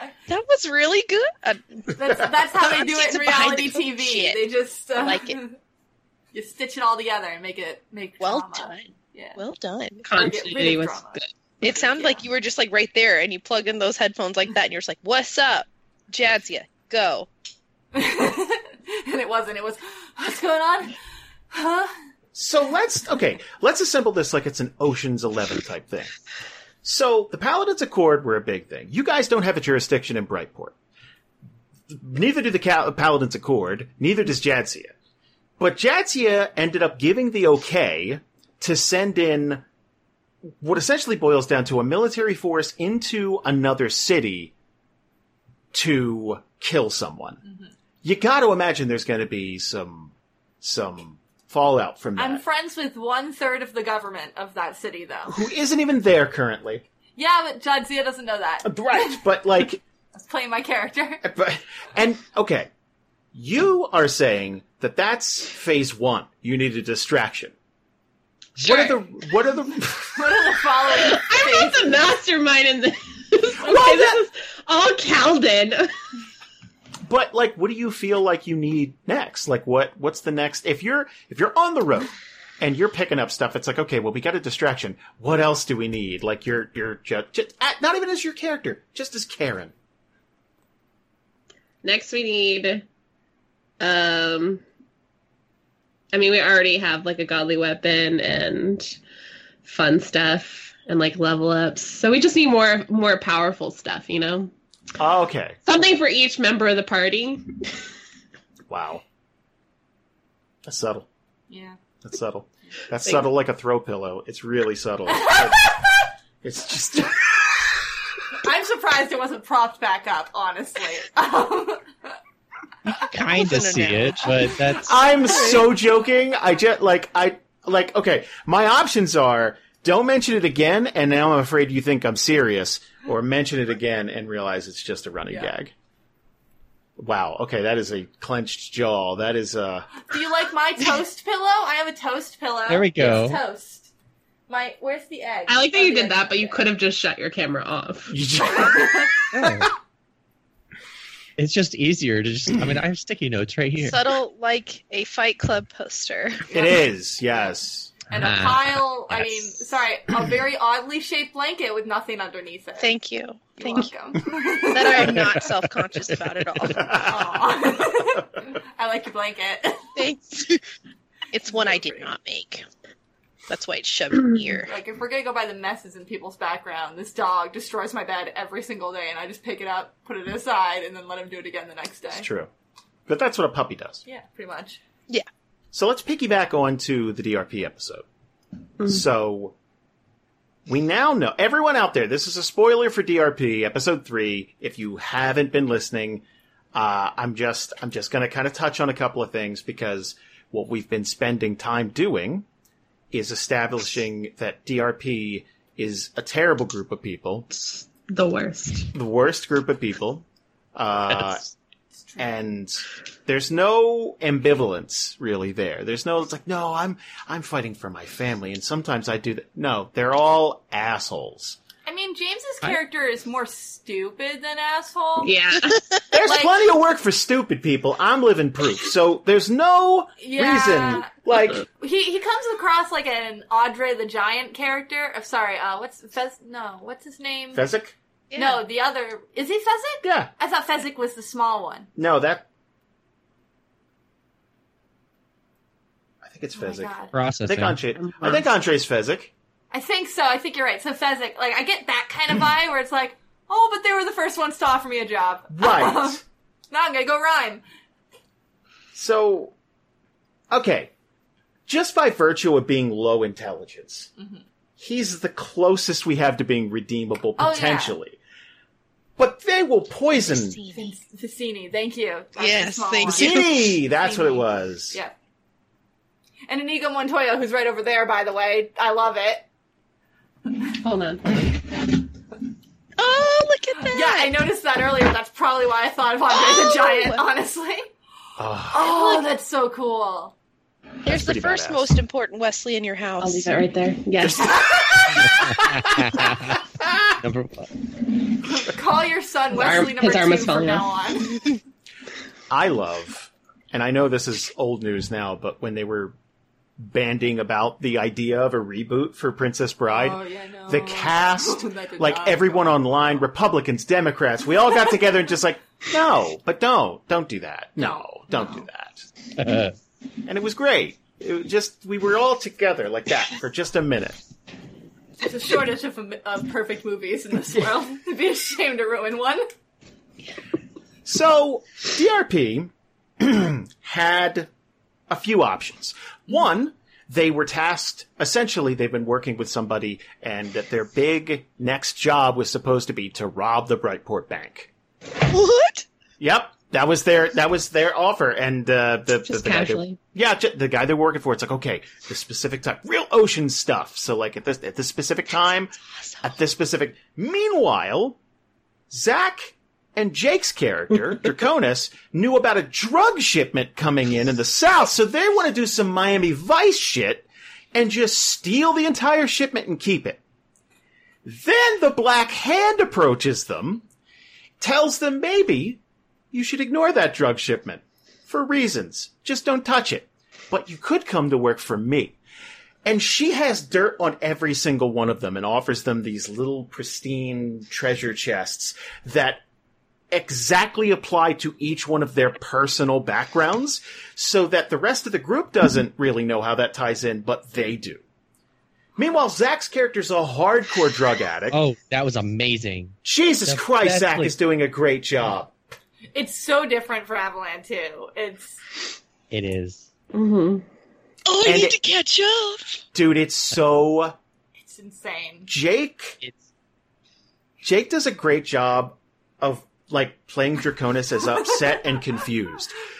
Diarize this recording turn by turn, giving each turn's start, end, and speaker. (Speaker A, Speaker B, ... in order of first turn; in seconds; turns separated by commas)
Speaker A: 0.3-4.4, Speaker B: 1.9-5.6, Speaker A: 5.0-5.4, Speaker B: 6.3-9.4, Speaker A: 8.2-10.1, Speaker C: 10.0-11.3, Speaker B: 10.1-12.2, Speaker A: 11.6-17.3, Speaker B: 17.9-20.9, Speaker B: 21.5-21.9, Speaker D: 22.3-26.1, Speaker D: 26.8-30.7, Speaker D: 31.9-34.9, Speaker D: 35.6-39.6, Speaker D: 40.5-44.5, Speaker D: 45.7-47.4, Speaker B: 47.4-47.7, Speaker D: 48.0-52.4, Speaker B: 52.2-55.4, Speaker D: 55.3-56.9, Speaker B: 57.1-59.2, Speaker D: 58.6-59.8, Speaker B: 60.1-61.2, Speaker D: 61.2-62.7, Speaker D: 63.3-67.5, Speaker D: 68.6-70.4, Speaker B: 68.6-69.0, Speaker B: 70.1-72.0, Speaker C: 70.9-75.9, Speaker D: 73.6-74.2, Speaker D: 77.0-89.7, Speaker C: 91.8-92.8, Speaker C: 93.8-94.6, Speaker C: 96.1-99.0, Speaker C: 99.6-104.5, Speaker D: 105.0-105.6, Speaker C: 105.6-107.5, Speaker D: 108.7-109.0, Speaker D: 110.6-111.1, Speaker B: 111.5-111.8, Speaker D: 112.0-115.7, Speaker B: 115.1-116.0, Speaker D: 116.4-117.9, Speaker B: 118.4-121.9, Speaker E: 122.8-125.0, Speaker A: 123.2-124.5, Speaker D: 124.8-135.7, Speaker A: 125.2-125.7, Speaker B: 125.3-125.6, Speaker D: 137.0-139.9, Speaker B: 140.1-143.9, Speaker E: 142.7-143.4, Speaker B: 144.5-146.7, Speaker C: 145.5-148.2, Speaker D: 148.1-149.1, Speaker B: 148.4-149.7, Speaker E: 149.3-149.7, Speaker E: 151.4-154.0, Speaker A: 153.8-156.5, Speaker B: 156.5-156.9, Speaker D: 156.5-158.0, Speaker B: 158.1-162.9, Speaker E: 158.2-159.4, Speaker A: 162.8-163.9, Speaker B: 163.6-165.4, Speaker A: 164.7-167.0, Speaker D: 166.6-167.6, Speaker B: 167.0-170.0, Speaker A: 169.9-170.6, Speaker A: 171.3-172.6, Speaker B: 171.7-172.0, Speaker A: 173.5-174.7, Speaker B: 174.6-182.3, Speaker D: 182.1-182.5, Speaker D: 183.1-184.0, Speaker B: 184.1-184.8, Speaker D: 185.7-188.1, Speaker D: 188.8-189.5, Speaker D: 190.7-202.4, Speaker D: 203.1-207.5, Speaker C: 207.5-208.9, Speaker D: 208.9-211.4, Speaker B: 212.0-212.3, Speaker D: 212.2-221.6, Speaker B: 221.8-225.3, Speaker C: 225.2-225.8, Speaker D: 226.1-231.7, Speaker B: 226.2-226.6, Speaker B: 230.2-231.1, Speaker B: 231.7-237.7, Speaker D: 237.5-237.9, Speaker A: 238.3-238.6, Speaker B: 238.3-241.9, Speaker D: 240.0-240.3, Speaker D: 241.9-242.4, Speaker D: 246.2-249.3, Speaker B: 246.6-247.1, Speaker E: 247.1-247.8, Speaker B: 249.7-257.6, Speaker D: 255.5-256.2, Speaker D: 258.9-259.5, Speaker D: 260.5-260.9, Speaker D: 261.7-264.1, Speaker B: 264.2-264.4, Speaker D: 264.8-268.2, Speaker B: 267.4-268.0, Speaker D: 269.2-270.6, Speaker A: 270.2-271.0, Speaker B: 270.7-275.1, Speaker A: 272.4-273.7, Speaker D: 273.1-275.0, Speaker B: 276.5-279.4, Speaker C: 280.8-281.6, Speaker A: 283.0-284.4, Speaker B: 283.9-287.9, Speaker A: 286.3-287.2, Speaker D: 288.4-289.2, Speaker B: 288.7-290.3, Speaker A: 291.0-293.5, Speaker D: 291.1-291.9, Speaker C: 293.2-294.6, Speaker D: 294.2-296.0, Speaker B: 294.6-295.1, Speaker E: 295.2-296.6, Speaker E: 297.2-297.7, Speaker B: 298.4-301.6, Speaker C: 299.5-300.9, Speaker D: 302.5-306.1, Speaker D: 306.8-319.1, Speaker B: 309.9-312.7, Speaker B: 317.8-318.7, Speaker E: 319.4-319.7, Speaker D: 320.2-324.2, Speaker B: 325.2-329.4, Speaker D: 331.0-334.5, Speaker D: 335.1-344.7, Speaker A: 345.2-345.8, Speaker D: 346.2-358.2, Speaker C: 349.2-350.0, Speaker D: 358.9-370.2, Speaker D: 371.2-373.8, Speaker D: 374.6-375.8, Speaker D: 376.3-382.2, Speaker D: 382.8-389.4, Speaker D: 390.1-398.0, Speaker D: 399.0-401.6, Speaker E: 401.5-404.3, Speaker D: 403.0-405.5, Speaker B: 406.1-408.6, Speaker E: 409.3-409.9, Speaker C: 410.1-410.6, Speaker A: 411.3-412.8, Speaker D: 411.4-411.8, Speaker D: 412.9-414.1, Speaker B: 414.6-415.5, Speaker D: 415.5-416.2, Speaker D: 417.6-422.8